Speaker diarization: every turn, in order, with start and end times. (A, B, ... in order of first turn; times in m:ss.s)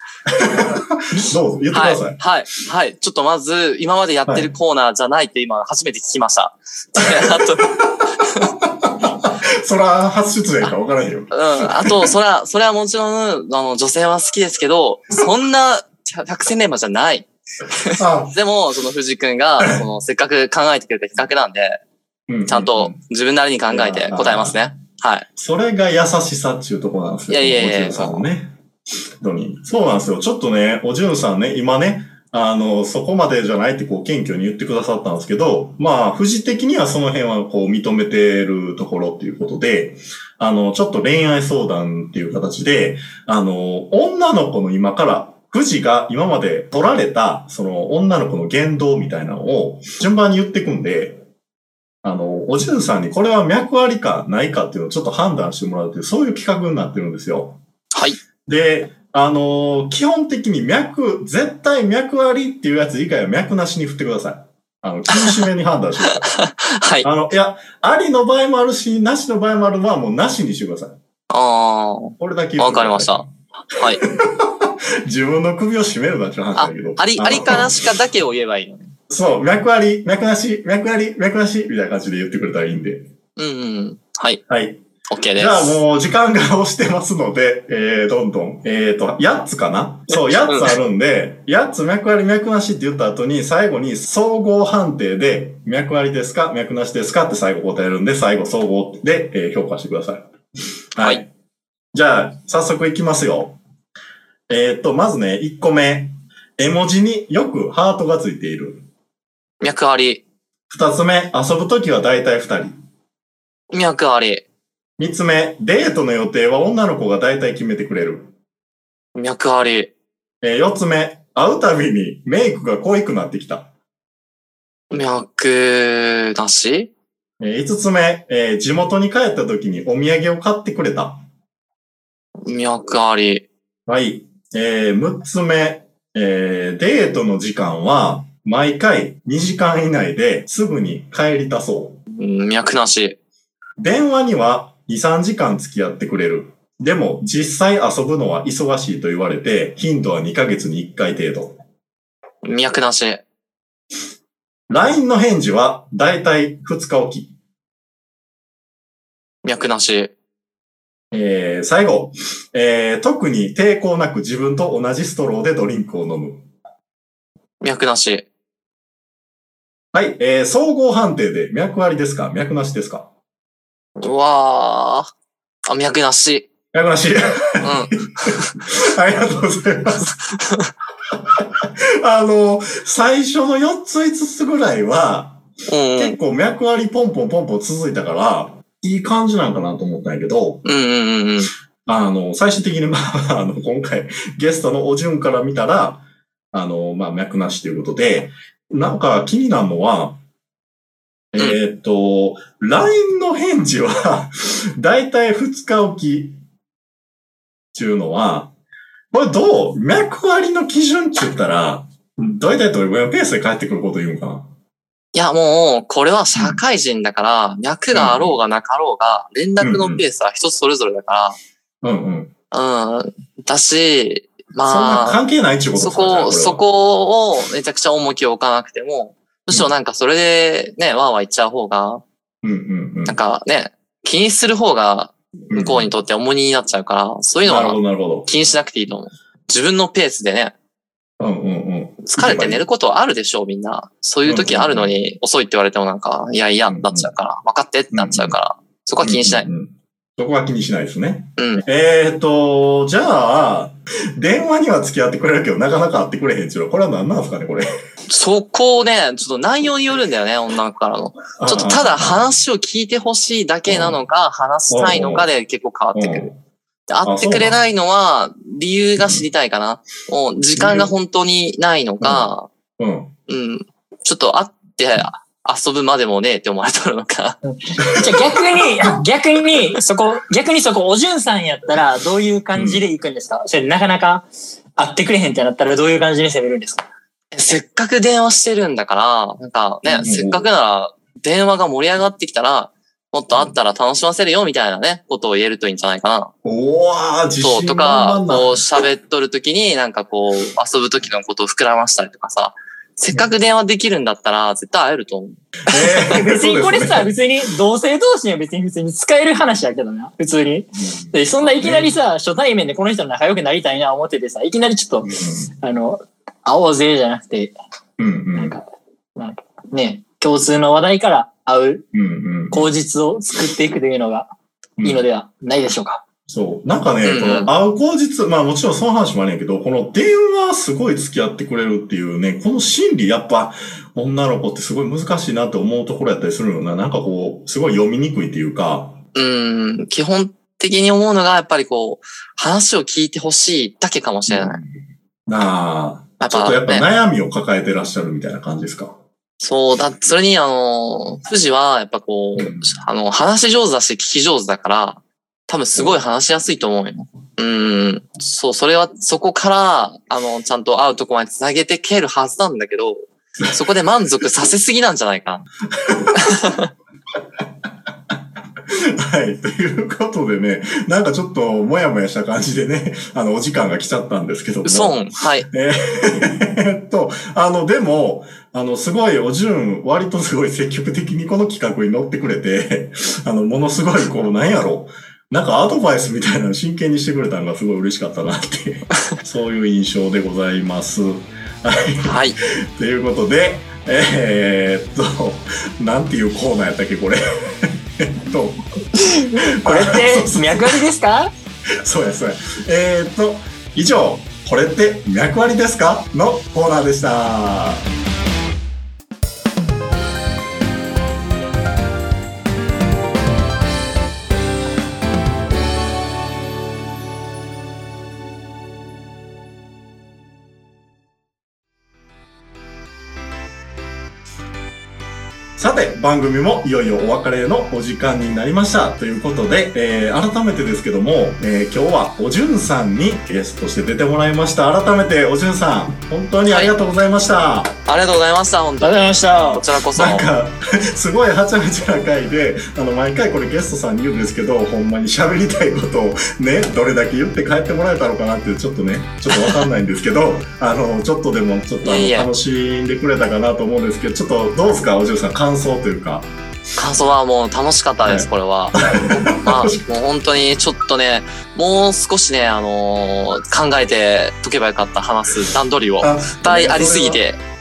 0:00.3-0:02.2 A
0:01.7-0:08.5 B
0:07.0-0:12.2 A
0:11.3-0:21.8 B
0:18.0-0:18.4 A
0:22.3-0:23.0 A
0:22.5-0:25.3 B
0:23.7-0:24.6 A
0:25.4-0:28.6 A
0:27.3-0:28.2 B
0:29.2-0:51.2 A
0:52.0-0:57.6 A
0:58.5-1:06.4 A
1:05.1-1:05.4 B
1:06.1-1:07.1 B
1:07.0-1:11.0 A
1:11.3-1:14.0 B
1:12.2-1:17.8 A
1:16.6-1:18.9 B
1:19.1-1:23.1 A
1:23.4-1:24.4 B
1:24.5-1:24.8 A
1:25.1-1:25.8 B
1:25.4-1:40.3 A
1:30.1-1:30.7 B
1:41.0-1:41.3 A
1:41.9-1:43.6 A
1:44.5-1:48.9 A
1:49.6-1:50.2 B
1:50.7-1:52.8 A
1:53.7-1:54.4 B
1:55.0-1:58.3 A
1:59.2-1:59.9 B
2:00.4-2:03.7 A
2:04.9-2:06.9 B
2:07.4-2:11.2 A
2:12.4-2:13.5 B
2:13.9-2:22.0 A
2:22.2-2:23.2 B
2:23.8-2:31.6 A
2:32.4-2:33.2 B
2:34.7-2:37.3 A
2:39.4-2:40.1 B
2:41.1-2:46.5 A
2:47.6-2:48.3 B
2:49.9-2:53.1 A
2:54.0-2:55.1 B
2:55.7-2:56.5 B
2:56.7-3:00.1 A
2:57.6-2:58.5 B
3:00.3-3:00.7 B
3:01.3-3:05.4 A
3:05.7-3:06.2 B
3:06.0-3:10.6 A
3:10.6-3:11.5 B
3:11.9-3:20.2 A
3:21.3-3:26.4 A
3:27.7-3:28.5 A
3:29.1-3:34.5 A
3:35.2-3:41.4 B
3:36.4-3:36.6 A
3:37.9-3:38.4 A
3:39.6-3:40.0 A
3:41.8-3:42.3 A
3:42.5-3:45.2 B
3:44.6-3:46.6 A
3:45.8-3:52.0 B
3:52.4-3:53.2 A
3:53.1-4:00.5 B
3:55.5-3:55.9 A
3:57.4-3:58.3 A
4:01.2-4:02.6 A
4:02.0-4:09.5 B
4:04.2-4:05.0 A
4:06.7-4:07.1 A
4:07.9-4:08.4 A
4:09.0-4:17.7 A
4:11.4-4:11.6 B
4:18.1-4:26.3 B
4:21.4-4:22.2 A
4:23.7-4:24.0 A
4:24.7-4:25.3 A
4:26.0-4:26.4 A
4:26.9-4:32.5 B
4:27.0-4:27.6 A
4:29.0-4:29.2 A
4:30.6-4:30.9 A
4:32.0-4:33.1 A
4:33.3-4:37.4 B
4:37.5-4:46.8 C
4:37.8-4:38.3 A
4:42.5-4:42.8 A
4:47.3-4:56.3 B
4:50.0-4:50.5 A
4:56.4-4:58.6 A
4:57.4-5:06.2 B
5:05.7-5:07.1 A
5:06.2-5:17.5 C
5:10.8-5:11.9 A
5:15.0-5:15.5 A
5:18.0-5:18.6 A
5:18.4-5:18.6 C
5:19.2-5:21.8 C
5:21.9-5:22.7 A
5:22.5-5:24.3 C
5:24.8-5:25.0 A
5:24.8-5:26.0 C
5:26.3-5:39.0 A
5:27.0-5:27.5 B
5:39.2-5:44.6 B
5:44.3-5:49.0 A
5:46.2-5:46.9 B
5:49.4-6:05.5 B
5:52.4-5:52.7 A
5:55.8-5:56.0 A
6:05.8-6:06.2 A
6:06.2-6:06.7 B
6:08.7-6:38.6 A
6:14.6-6:15.5 B
6:32.0-6:32.4 B
6:39.0-6:41.3 C
6:39.6-6:40.8 A
6:41.8-6:47.8 A
7:05.6-7:17.8 A
7:16.5-7:16.7 B
7:17.9-7:20.3 B
7:18.8-7:19.6 C
7:19.8-7:36.3 A
7:29.3-7:29.6 B
7:31.8-7:32.3 B
7:36.8-7:47.4 B
7:38.0-7:39.8 A
7:46.0-7:47.2 A